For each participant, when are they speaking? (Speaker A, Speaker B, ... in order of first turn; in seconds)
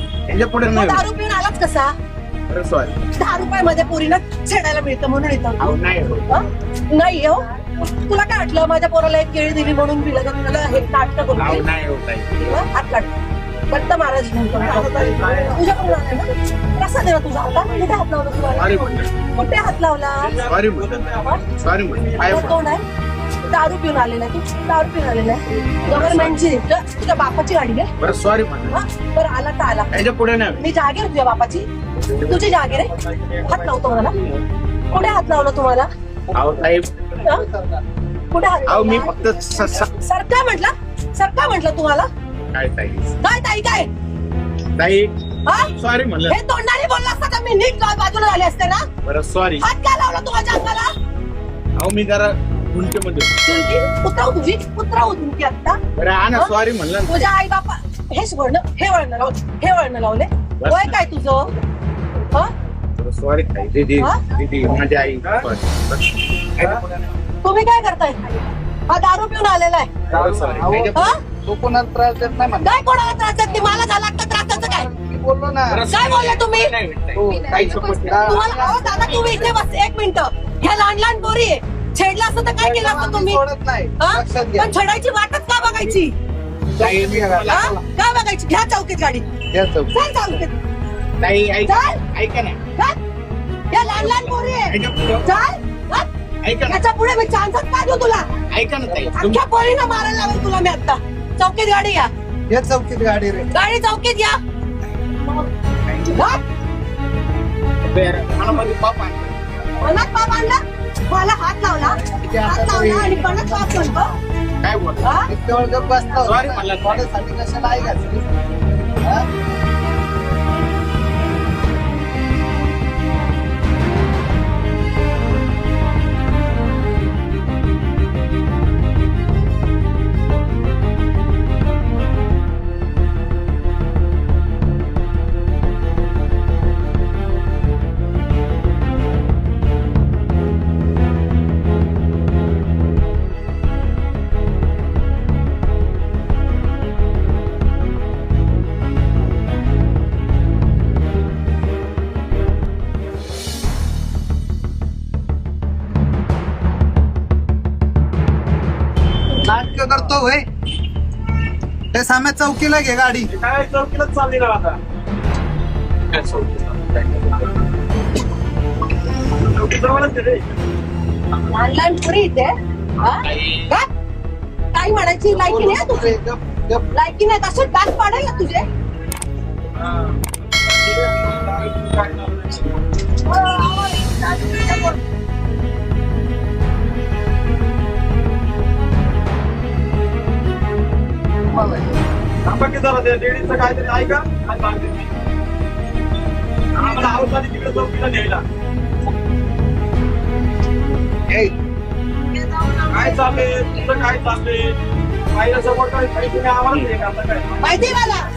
Speaker A: 0.3-1.0, 2.5-3.0, 5.6-6.4, 11.4-12.7, 18.5-19.1, 20.4-20.9, 21.5-22.6, 25.9-26.4, 28.0-28.8, 29.9-30.6, 32.0-32.7, 36.3-36.9, 38.7-39.9, 42.5-43.2, 44.8-45.1, 45.7-46.4, 49.0-49.6, 51.8-53.3, 56.0-57.3, 60.6-61.1, 63.0-66.9, 70.1-71.2, 75.7-79.0, 86.8-87.7, 91.2-92.6, 94.0-95.4, 96.4-96.8, 98.5-99.4, 105.9-106.2, 107.8-109.3, 114.6-115.2, 116.2-117.1, 166.1-167.4, 173.2-173.7
Speaker B: 0.7-1.9, 3.1-5.8, 6.3-11.7, 12.5-13.1, 13.7-18.8, 19.3-20.4, 22.2-22.9, 23.5-27.9, 28.7-29.9, 30.6-31.7, 32.2-32.9, 33.5-34.2, 34.9-35.9, 38.3-39.1, 39.8-42.1, 43.2-43.9, 45.5-45.7, 46.3-48.9, 49.6-50.9, 53.4-55.8, 57.1-61.5, 67.4-68.4, 68.9-69.9, 72.6-74.9, 75.9-76.7, 77.6-83.4, 84.0-86.1, 87.5-89.3, 89.9-90.5, 91.7-92.0, 93.7-96.1, 96.7-98.3, 99.1-102.1, 103.5-104.4, 106.1-106.4, 109.8-114.1, 115.0-115.3, 171.4-173.9, 174.7-176.2, 176.9-178.7, 183.2-185.0, 202.3-203.2, 207.6-208.2
Speaker C: 14.6-15.7, 17.4-17.9, 20.2-22.5, 32.7-34.4, 65.2-65.5, 163.3-164.8, 169.4-170.5, 179.8-182.8, 192.4-195.1, 196.8-198.4, 202.9-204.8, 205.3-207.8
Speaker D: 37.3-37.8, 70.1-72.7, 74.5-75.8, 77.2-79.6, 82.6-84.7, 86.8-87.8, 89.5-89.9, 102.5-103.5, 112.0-113.9, 115.3-119.3, 159.3-160.5, 161.9-163.3, 175.3-176.9, 191.5-192.0, 201.3-201.6